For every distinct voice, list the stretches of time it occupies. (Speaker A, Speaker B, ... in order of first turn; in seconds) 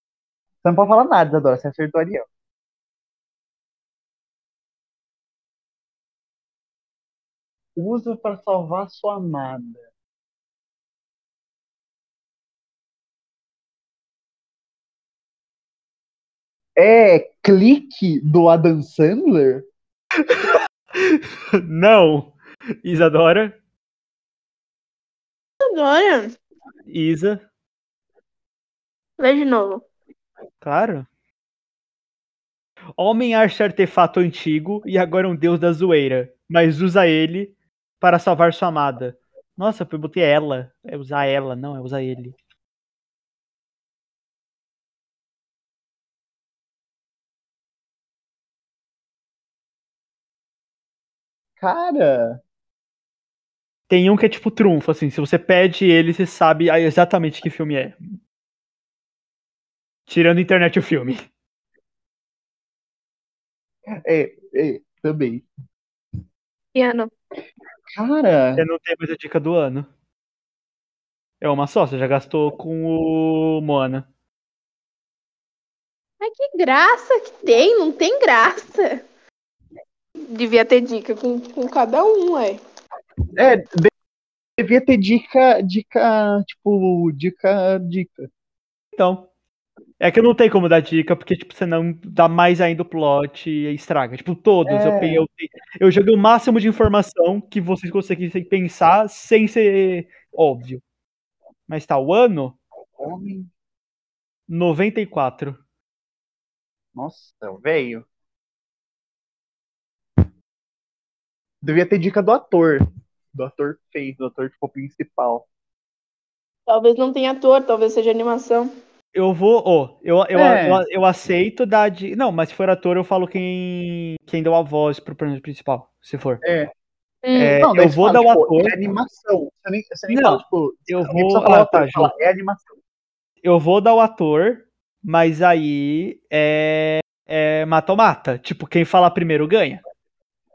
Speaker A: 0.6-2.2, 7.8-9.8, 16.8-19.6, 51.6-52.4, 64.0-65.5, 67.9-68.6, 83.3-83.9, 84.6-88.3, 94.6-95.2, 103.0-103.5, 106.9-108.0, 111.6-112.8, 113.3-115.5, 120.3-120.8, 126.4-126.7, 127.6-132.6
Speaker B: 20.3-23.6, 26.9-27.4, 30.6-31.1, 33.0-42.3, 53.9-58.2, 60.1-61.2, 68.6-69.9, 71.4-74.0, 89.0-89.3, 90.0-100.8, 101.7-102.5, 104.5-105.6, 119.1-126.4, 127.3-128.7, 130.1-132.1, 133.4-139.8
Speaker C: 25.7-26.3, 29.2-29.8, 66.7-67.1, 76.2-79.0, 80.3-82.6, 116.7-118.7, 127.2-127.6